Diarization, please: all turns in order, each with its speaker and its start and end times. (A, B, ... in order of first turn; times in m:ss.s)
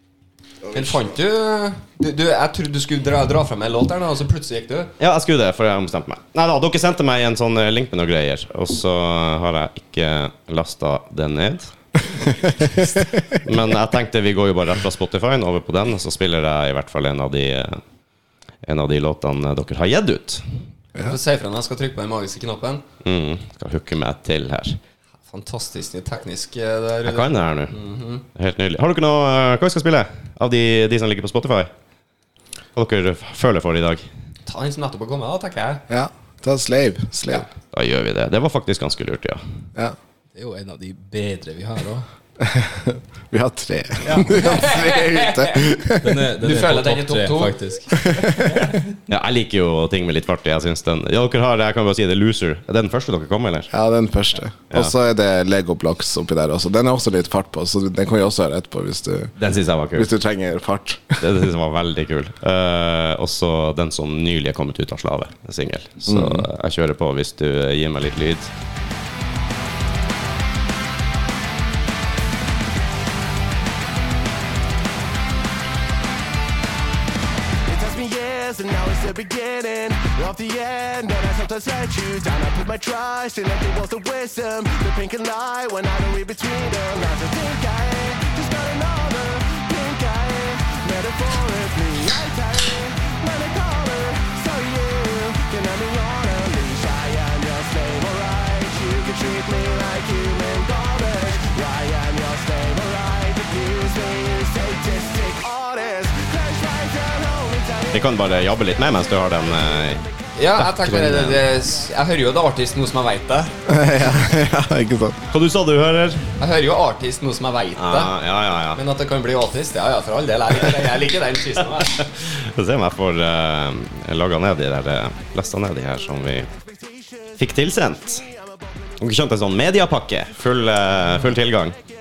0:00.7-0:04.9 A
0:05.0-0:11.7 B
0:12.8-0:17.8 B
0:18.6-0:20.4 B
0:21.0-0:22.8 A
0:23.0-0:24.8 B
0:25.3-0:28.2 A
0:27.0-0:27.8 B
0:28.3-0:31.7 B
0:32.8-0:34.0 B
0:34.4-0:35.8 A
0:35.9-0:37.5 C
0:37.7-0:39.4 B
0:40.3-0:42.0 D
0:42.4-0:46.2 C
0:44.0-0:45.7 A
0:46.0-0:48.8 D
0:46.4-0:48.1 A
0:48.0-0:48.7 C
0:49.1-0:53.7 B
0:53.7-0:59.3 C
0:59.4-1:00.1 B
0:59.9-1:01.3 C
1:01.2-1:08.5 B
1:06.1-1:06.5 C
1:17.6-1:48.0 E
1:47.9-1:50.0 B
1:50.4-1:53.5 A
1:50.6-1:51.4 B
1:53.6-1:55.2 C
1:55.3-1:56.3 B
1:56.4-1:58.1 A
1:57.8-1:58.8 B
1:58.8-2:02.0 A
2:02.0-2:06.5 B
2:06.8-2:07.3 E
2:07.4-2:08.2 B
2:09.0-2:11.8 B